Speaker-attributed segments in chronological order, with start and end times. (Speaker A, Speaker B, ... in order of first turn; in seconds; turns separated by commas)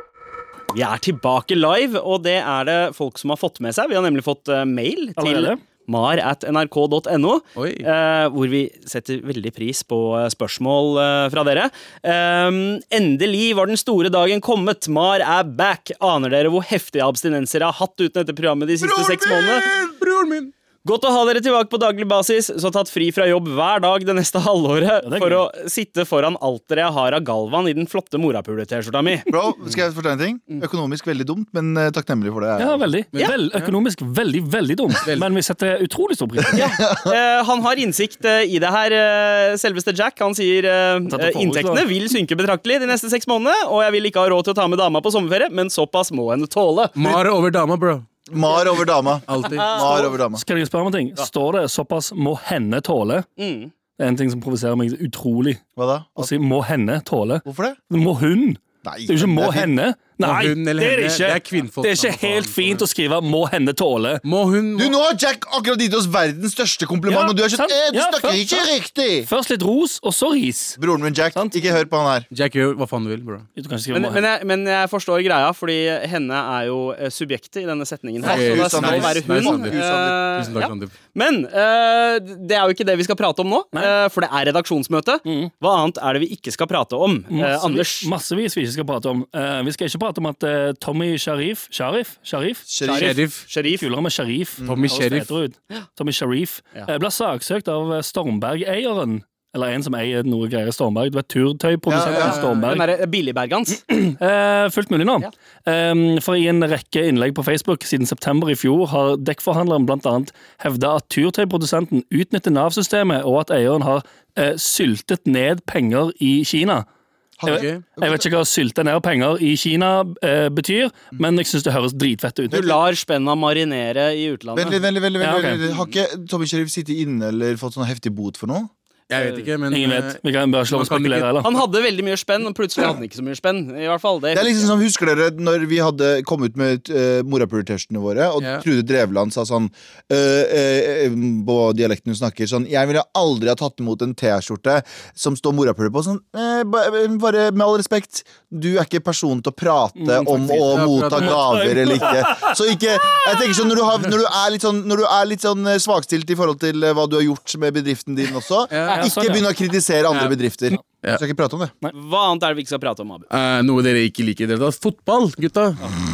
Speaker A: 0.7-19.7, Speaker B: 5.2-5.6, Speaker C: 7.6-7.9, Speaker C: 18.8-20.5, Speaker A: 20.8-29.3, Speaker B: 25.0-25.4, Speaker D: 29.3-32.9, Speaker B: 32.6-36.7, Speaker C: 33.1-33.7, Speaker C: 35.0-35.3, Speaker D: 36.5-37.1, Speaker A: 36.5-47.0, Speaker B: 41.1-41.9, Speaker C: 47.0-48.1, Speaker D: 48.3-50.4, Speaker C: 49.3-49.8, Speaker A: 49.4-50.2, Speaker B: 50.3-53.3, Speaker A: 53.4-53.7, Speaker B: 54.0-55.6, Speaker D: 55.8-56.3, Speaker B: 56.2-64.2, Speaker D: 57.5-57.8, Speaker D: 58.8-59.7, Speaker C: 60.2-62.8, Speaker C: 64.2-64.9, Speaker D: 64.7-69.3, Speaker B: 67.1-68.6, Speaker B: 69.2-70.8, Speaker D: 70.8-72.3, Speaker B: 71.3-71.6, Speaker C: 72.3-73.5, Speaker B: 73.5-74.2, Speaker A: 73.9-88.1, Speaker D: 78.2-80.3, Speaker C: 78.2-79.8, Speaker C: 80.3-80.9, Speaker B: 85.2-85.5, Speaker B: 87.3-92.7, Speaker D: 92.7-93.2, Speaker A: 92.8-93.9, Speaker C: 93.0-93.4, Speaker B: 93.6-102.8, Speaker D: 94.6-94.9, Speaker C: 94.6-95.3, Speaker D: 101.9-102.3, Speaker C: 102.0-102.8, Speaker A: 102.6-103.9, Speaker B: 103.8-116.8, Speaker D: 117.4-118.2, Speaker B: 117.4-122.7, Speaker C: 117.5-117.8, Speaker A: 122.5-124.8, Speaker D: 124.5-128.7, Speaker B: 125.2-125.6, Speaker A: 125.6-125.9, Speaker C: 129.1-131.6, Speaker A: 129.1-129.5, Speaker B: 129.7-131.5, Speaker A: 131.4-134.7, Speaker D: 134.3-161.7, Speaker B: 150.0-152.5, Speaker C: 150.2-151.8, Speaker C: 158.7-159.0, Speaker B: 158.8-159.4, Speaker A: 161.9-163.2, Speaker C: 163.3-165.8